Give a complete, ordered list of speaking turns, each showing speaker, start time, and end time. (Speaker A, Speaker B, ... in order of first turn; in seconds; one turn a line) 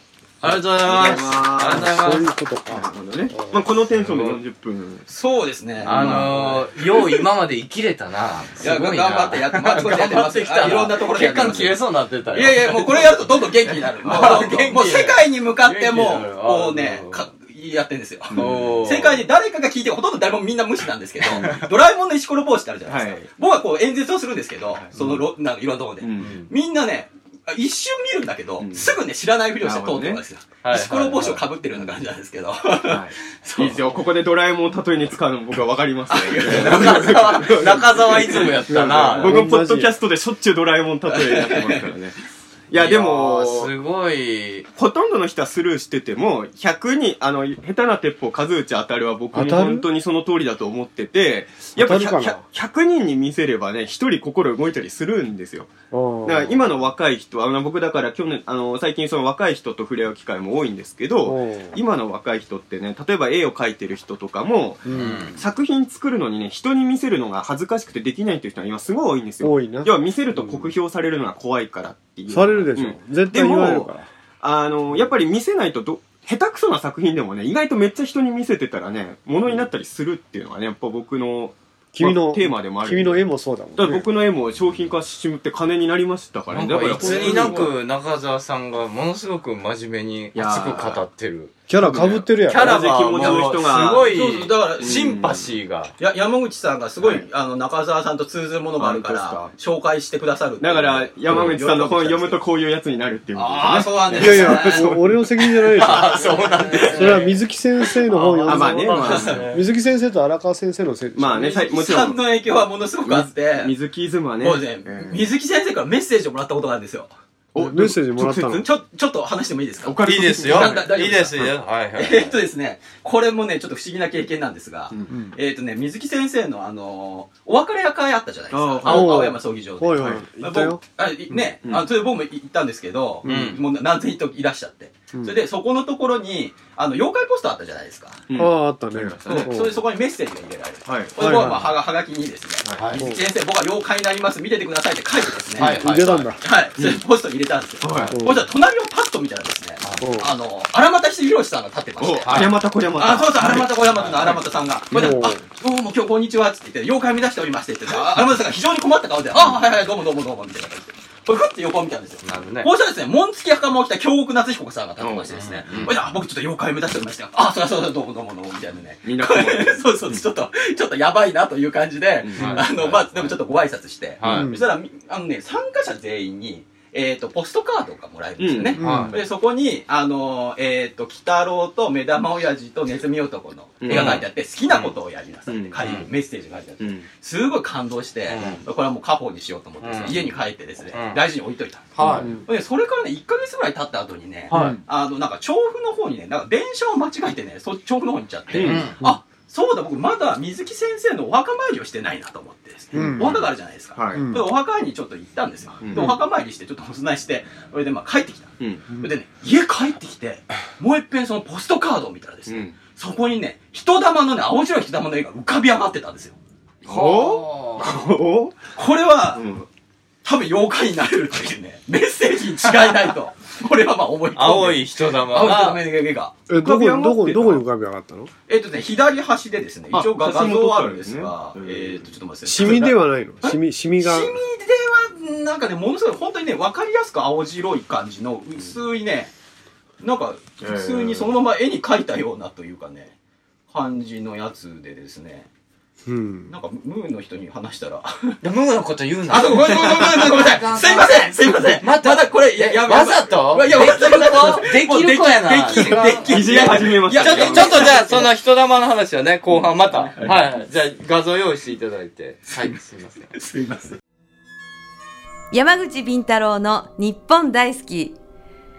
Speaker A: 0.4-2.3
Speaker B: 0.8-1.9
Speaker C: 1.6-3.6
Speaker B: 2.7-5.0
Speaker A: 4.0-4.4
Speaker D: 5.1-7.3
Speaker B: 5.8-6.3
Speaker A: 5.8-13.2
Speaker D: 8.6-11.8
Speaker D: 12.3-33.8
Speaker A: 13.7-17.3
Speaker B: 18.3-18.9
Speaker A: 18.3-19.2
Speaker B: 21.2-21.7
Speaker B: 22.9-23.3
Speaker B: 24.7-25.3
Speaker B: 26.0-26.4
Speaker A: 26.2-26.5
Speaker B: 28.6-29.0
Speaker B: 29.6-30.2
Speaker A: 30.6-31.4
Speaker B: 32.8-42.2
Speaker D: 36.1-39.3
Speaker A: 36.4-39.5
Speaker C: 39.2-40.0
Speaker D: 41.1-41.9
Speaker B: 42.7-43.8
Speaker A: 42.7-44.7
Speaker B: 44.8-55.7
Speaker C: 49.3-49.9
Speaker C: 51.8-52.4
Speaker C: 55.9-56.7
Speaker B: 56.2-87.7
Speaker C: 61.2-61.8
Speaker C: 64.9-65.2
Speaker A: 64.9-65.4
Speaker C: 69.4-70.7
Speaker C: 72.3-74.1
Speaker C: 81.9-84.1
Speaker A: 86.5-91.5
Speaker C: 87.0-87.7
Speaker B: 90.3-91.0
Speaker C: 91.7-93.4
Speaker B: 91.8-94.2
Speaker A: 92.5-95.9
Speaker D: 93.7-95.3
Speaker B: 94.8-95.6
Speaker D: 96.0-102.4
Speaker B: 97.0-97.3
Speaker B: 98.8-99.5
Speaker B: 100.6-105.2
Speaker D: 103.3-104.9
Speaker C: 104.2-106.3
Speaker D: 105.7-107.3
Speaker A: 105.8-107.4
Speaker C: 106.9-111.5
Speaker A: 108.1-109.6
Speaker B: 108.4-109.5
Speaker D: 109.0-109.5
Speaker B: 111.2-112.2
Speaker D: 111.4-113.7
Speaker B: 113.0-115.3
Speaker D: 114.4-117.1
Speaker B: 117.5-118.7
Speaker C: 117.6-118.7
Speaker D: 118.6-138.3
Speaker B: 119.8-121.2
Speaker A: 120.0-122.4
Speaker C: 125.1-125.4
Speaker B: 128.5-129.4
Speaker C: 128.9-130.8
Speaker B: 130.0-130.2
Speaker C: 133.2-133.6
Speaker A: 133.2-133.6
Speaker B: 138.3-139.5
Speaker C: 138.4-139.7
Speaker D: 139.3-216.4
Speaker B: 140.9-141.6
Speaker C: 141.2-141.6
Speaker A: 142.8-143.0
Speaker A: 145.6-146.3
Speaker C: 145.6-146.4
Speaker B: 146.8-147.0
Speaker B: 147.8-148.2
Speaker A: 147.9-148.2
Speaker C: 148.1-148.5
Speaker C: 150.0-150.3
Speaker B: 152.0-154.4
Speaker A: 152.3-152.5
Speaker A: 154.0-154.3
Speaker B: 154.9-155.3
Speaker C: 154.9-155.4
Speaker A: 162.2-162.7
Speaker B: 165.0-165.9
Speaker A: 165.3-165.9
Speaker B: 169.0-170.3
Speaker B: 172.2-173.4
Speaker A: 172.4-172.7
Speaker A: 174.2-174.5
Speaker B: 174.2-174.5
Speaker C: 174.3-174.7
Speaker B: 178.4-179.2
Speaker C: 178.8-179.2
Speaker A: 178.8-179.2
Speaker B: 183.8-184.9
Speaker A: 183.9-184.2
Speaker B: 185.5-186.0
Speaker A: 185.8-186.1
Speaker B: 186.8-187.1
Speaker A: 188.3-188.6
Speaker A: 189.8-190.2
Speaker A: 190.9-191.2
Speaker A: 191.9-192.4
Speaker B: 192.0-192.3
Speaker C: 192.1-192.4
Speaker B: 194.5-194.8
Speaker C: 194.5-194.8
Speaker C: 198.5-199.2
Speaker B: 198.5-198.9
Speaker A: 198.6-199.0
Speaker C: 202.9-203.4
Speaker B: 202.9-204.4
Speaker C: 204.1-204.4
Speaker B: 205.8-206.2
Speaker B: 208.6-208.8
Speaker B: 212.5-212.8
Speaker B: 216.8-218.6
Speaker A: 216.9-217.9
Speaker D: 218.8-219.4
Speaker B: 219.3-219.7
Speaker D: 220.2-226.3
Speaker A: 224.3-225.8
Speaker C: 226.5-228.3
Speaker B: 226.6-227.6
Speaker D: 228.5-239.3
Speaker B: 229.9-232.2
Speaker C: 232.5-234.4
Speaker D: 240.0-243.2
Speaker B: 240.6-241.3
Speaker D: 243.7-245.5
Speaker C: 246.1-246.6
Speaker D: 246.5-248.4
Speaker A: 248.4-263.3
Speaker D: 249.3-258.3
Speaker B: 249.3-250.4
Speaker B: 256.2-258.3
Speaker D: 259.9-260.4
Speaker D: 263.3-264.0
Speaker E: 265.5-268.2